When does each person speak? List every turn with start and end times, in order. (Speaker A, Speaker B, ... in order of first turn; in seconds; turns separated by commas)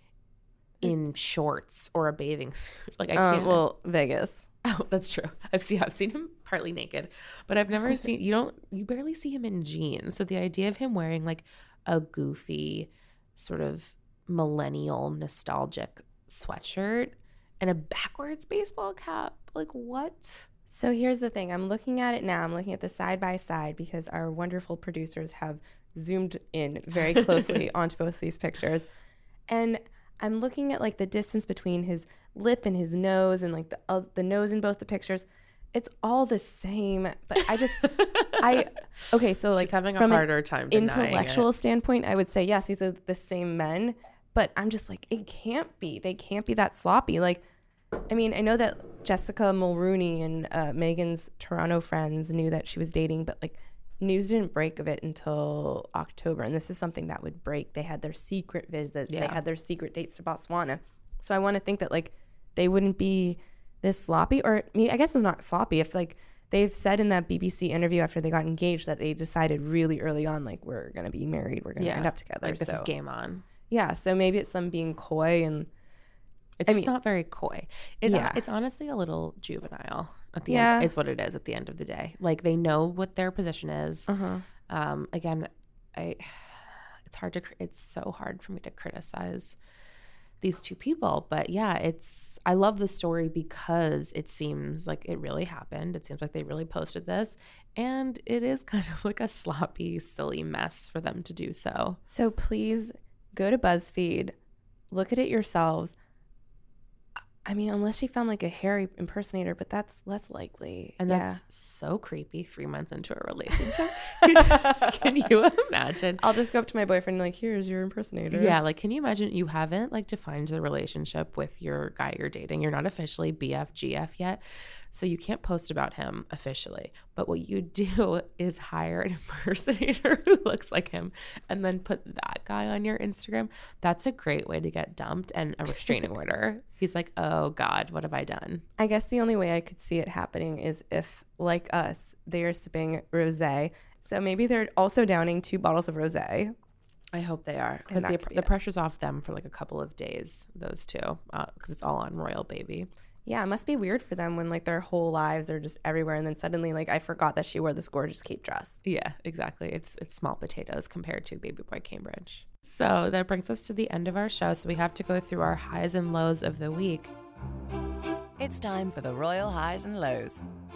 Speaker A: 0.8-3.6, Speaker B: 3.1-4.5, Speaker A: 4.6-20.5, Speaker B: 20.7-28.9, Speaker B: 29.5-47.4, Speaker A: 37.8-38.7, Speaker A: 39.5-41.5, Speaker B: 48.1-72.9, Speaker A: 59.1-59.4, Speaker A: 71.8-73.4, Speaker B: 73.7-75.7, Speaker A: 76.6-84.1, Speaker B: 78.0-78.4, Speaker B: 80.5-80.9, Speaker B: 84.1-84.5, Speaker A: 84.7-89.6, Speaker A: 90.4-102.0, Speaker B: 102.1-104.3, Speaker B: 104.9-106.0, Speaker B: 107.4-111.4, Speaker A: 111.0-116.2, Speaker B: 114.2-114.9, Speaker B: 116.2-118.6, Speaker A: 118.3-138.6, Speaker B: 138.8-146.5, Speaker A: 147.1-152.9, Speaker B: 147.9-148.5, Speaker B: 153.2-158.8, Speaker A: 158.8-167.1, Speaker C: 168.4-170.4